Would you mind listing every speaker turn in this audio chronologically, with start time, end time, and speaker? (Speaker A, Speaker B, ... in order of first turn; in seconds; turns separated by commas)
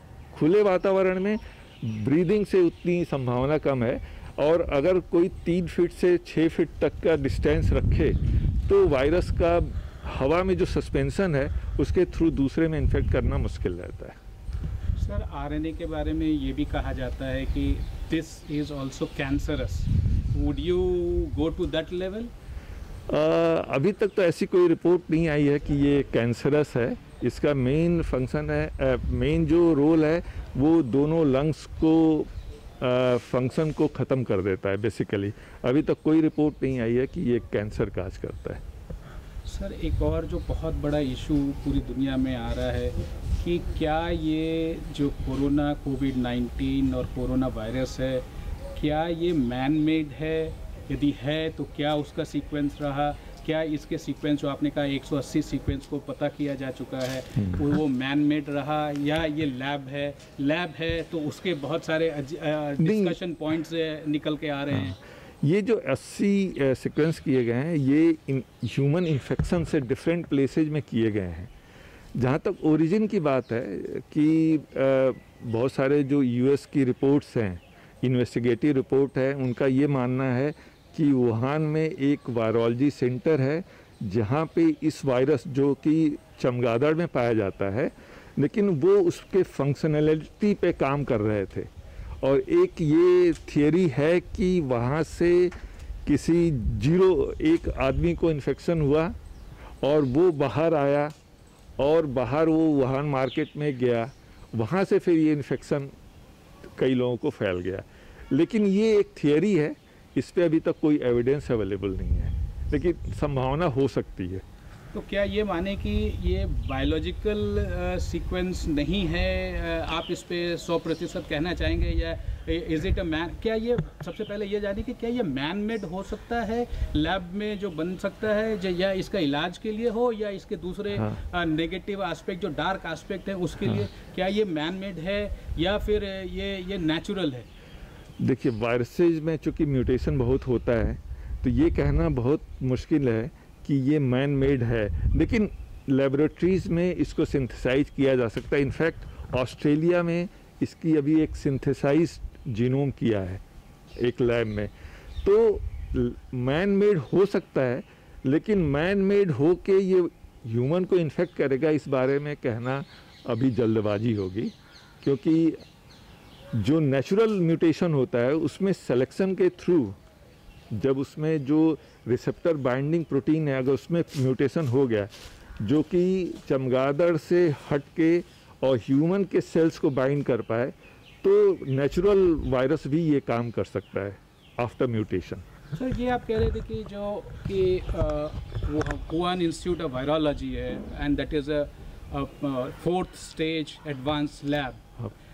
Speaker A: 0.3-14.2, Speaker B: 15.0-22.3, Speaker A: 23.1-32.3, Speaker A: 32.8-38.6, Speaker B: 39.5-65.0, Speaker A: 62.8-63.1, Speaker A: 64.7-71.5, Speaker A: 72.2-91.7, Speaker A: 92.2-95.5, Speaker A: 96.0-99.1, Speaker A: 99.8-101.1, Speaker A: 101.8-105.9, Speaker A: 106.8-114.4, Speaker B: 114.9-137.4, Speaker A: 138.2-153.4, Speaker A: 154.0-154.7, Speaker A: 155.2-165.6, Speaker A: 166.5-170.0, Speaker A: 170.7-185.4, Speaker B: 185.7-194.8